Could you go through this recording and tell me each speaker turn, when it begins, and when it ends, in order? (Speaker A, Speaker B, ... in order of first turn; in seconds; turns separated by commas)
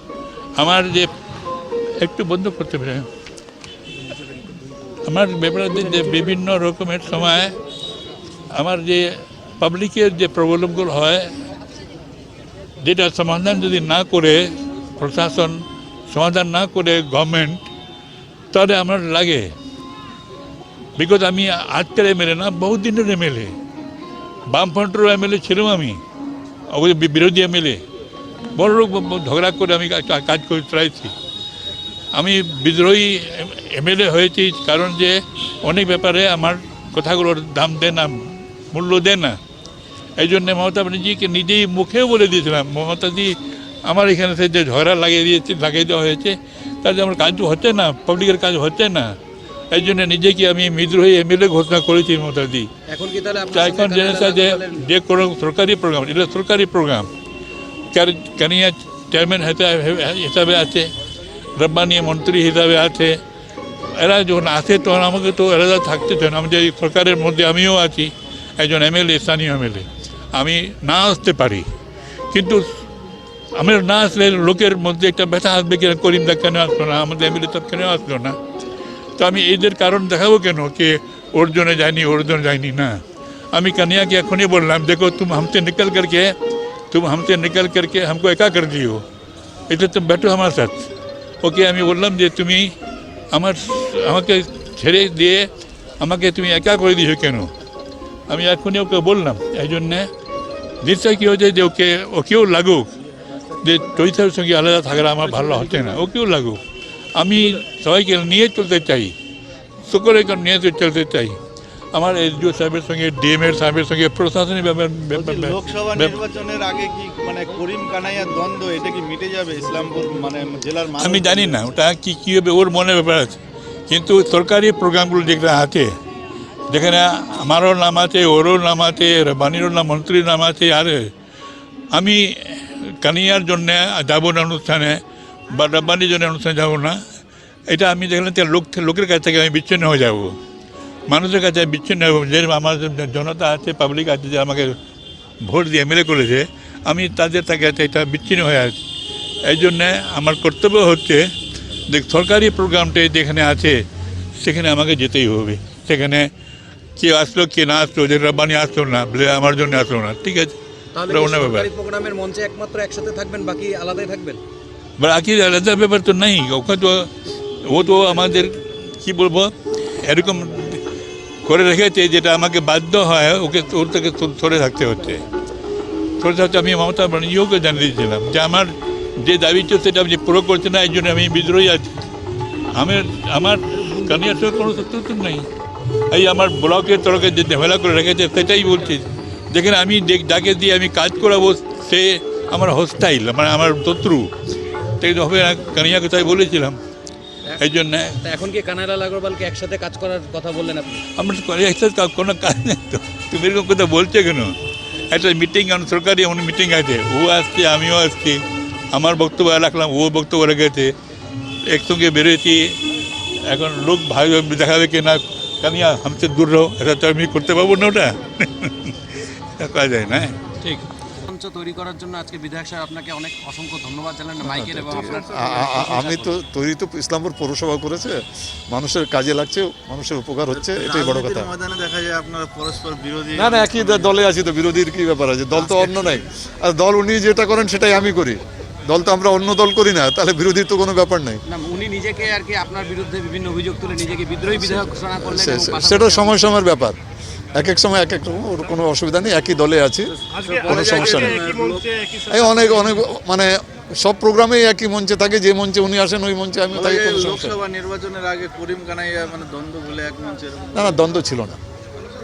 Speaker A: 0.6-1.1, Speaker A: 2.0-3.1, Speaker A: 5.0-7.5, Speaker A: 8.5-11.3, Speaker A: 12.8-17.7, Speaker A: 18.5-19.5, Speaker A: 21.0-23.6, Speaker A: 24.5-26.0, Speaker A: 26.7-27.8, Speaker A: 28.5-31.1, Speaker A: 32.1-39.4, Speaker A: 40.2-49.1, Speaker A: 49.7-52.7, Speaker B: 52.9-54.9, Speaker A: 53.5-57.1, Speaker A: 57.9-60.9, Speaker A: 61.6-63.2, Speaker A: 63.9-71.7, Speaker A: 72.3-72.7, Speaker A: 73.5-78.4, Speaker A: 79.2-83.0, Speaker A: 83.5-86.3, Speaker A: 86.9-89.0, Speaker A: 89.7-90.9, Speaker A: 91.4-92.7, Speaker A: 93.3-97.5, Speaker A: 98.3-100.1, Speaker A: 100.8-102.9, Speaker A: 103.6-106.6, Speaker A: 107.2-109.1, Speaker A: 109.8-111.4, Speaker A: 111.9-116.2, Speaker C: 115.1-121.6, Speaker A: 121.0-123.4, Speaker A: 123.9-125.9, Speaker A: 126.7-131.1, Speaker A: 131.9-137.0, Speaker A: 137.7-140.4, Speaker A: 141.1-144.8, Speaker A: 145.4-148.8, Speaker A: 149.4-151.3, Speaker A: 151.9-153.8, Speaker A: 154.4-156.3, Speaker A: 157.0-160.6, Speaker B: 160.9-164.4, Speaker A: 161.1-161.7, Speaker A: 165.0-167.1, Speaker A: 167.6-170.8, Speaker A: 171.4-175.2, Speaker A: 176.2-181.9, Speaker A: 182.7-185.4, Speaker A: 186.1-194.3, Speaker A: 195.0-196.8, Speaker A: 197.6-198.2, Speaker B: 198.2-201.0, Speaker A: 201.2-204.6, Speaker A: 205.1-208.4, Speaker A: 208.9-210.9, Speaker A: 211.7-212.8, Speaker A: 213.4-220.5, Speaker B: 220.6-226.3, Speaker D: 224.4-231.5, Speaker C: 230.5-234.1, Speaker D: 233.3-241.4, Speaker B: 235.6-235.9, Speaker B: 241.5-246.5, Speaker D: 245.2-247.0, Speaker D: 247.5-251.5, Speaker B: 250.2-252.3, Speaker D: 252.2-257.6, Speaker C: 256.7-261.0, Speaker D: 260.7-261.6